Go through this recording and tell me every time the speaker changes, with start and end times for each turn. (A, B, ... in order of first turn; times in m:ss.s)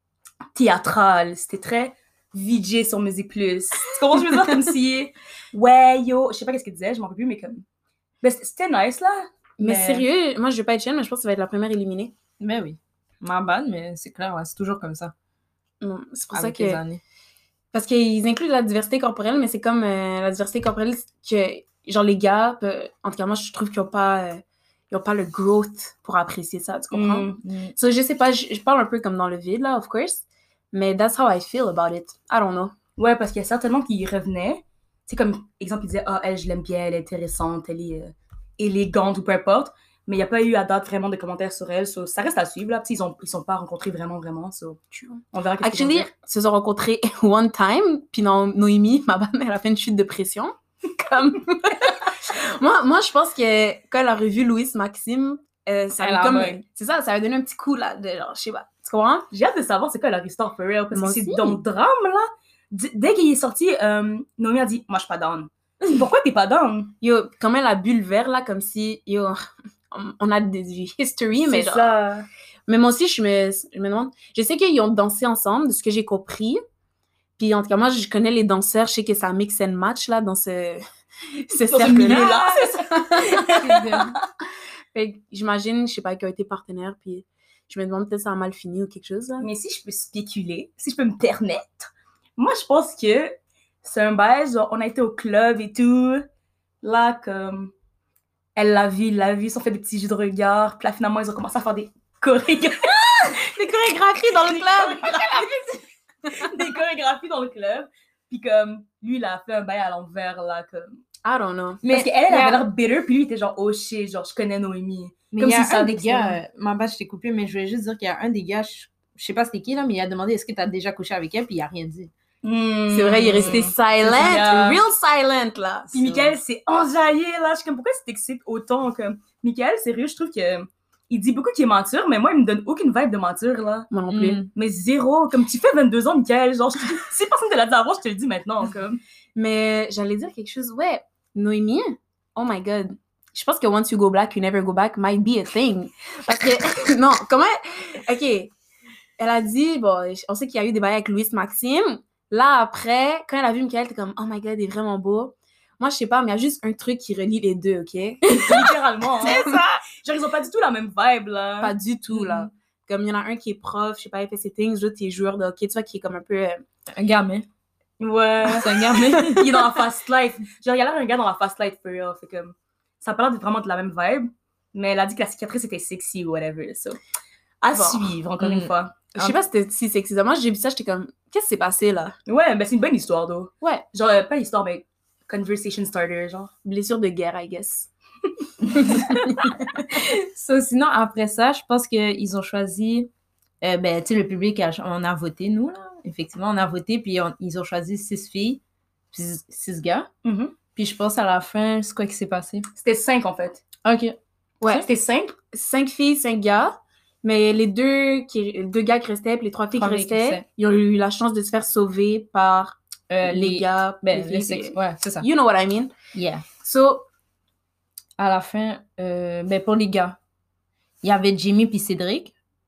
0:00.5-0:07.6 A
0:08.2-0:10.0 A
0:09.6-0:12.1 B
0:12.4-0:15.1 C
0:15.8-0:16.8 B
0:16.3-0:17.0 C
0:17.7-0:32.7 B
0:26.9-0:27.4 A
0:27.4-0:27.7 C
0:33.0-0:44.8 A
0:44.9-0:59.3 B
0:45.3-0:46.1 A
0:56.0-0:56.6 C
0:59.3-1:06.9 A
1:00.9-1:01.6 B
1:07.0-1:12.0 B
1:11.4-1:12.3 A
1:12.7-1:16.6 B
1:17.4-1:23.6 B
1:21.7-1:24.2 A
1:21.9-1:22.6 C
1:23.4-1:24.1 C
1:24.9-1:29.5 B
1:29.4-1:36.2 A
1:36.8-1:37.7 A
1:38.6-1:43.4 A
1:43.2-1:45.2 B
1:44.3-1:45.6 A
1:46.3-1:51.0 A
1:51.2-1:51.8 B
1:51.8-1:52.6 C
1:51.8-1:56.4 A
1:55.4-2:02.1 C
2:02.4-2:04.8 A
2:02.9-2:06.3 B
2:03.3-2:03.7 C
2:05.9-2:13.9 A
2:13.9-2:14.4 B
2:14.1-2:14.5 C
2:14.5-2:19.0 A
2:19.4-2:28.5 B
2:29.2-2:38.6 B
2:38.3-2:38.7 C
2:38.4-2:41.7 A
2:39.2-2:39.8 C
2:39.2-2:39.6 B
2:41.6-2:46.6 B
2:42.1-2:42.5 C
2:46.9-2:47.5 C
2:48.0-2:57.0 A
2:48.5-2:49.7 C
2:57.6-2:59.0 A
2:57.7-2:58.1 B
2:58.4-2:59.4 C
2:59.1-3:02.2 B
3:02.3-3:06.5 A
3:06.6-3:07.9 B
3:08.7-3:09.6 B
3:08.8-3:09.2 C
3:09.9-3:13.1 C
3:13.6-3:20.1 C
3:20.2-3:20.5 A
3:20.8-3:22.7 C
3:22.8-3:23.6 A
3:23.8-3:24.2 C
3:24.6-3:24.8 B
3:24.8-3:25.4 A
3:25.5-3:35.9 B
3:29.7-3:30.4 C
3:33.1-3:35.3 C
3:36.1-3:36.4 C
3:36.6-3:37.0 B
3:38.2-3:40.2 C
3:41.0-3:42.3 C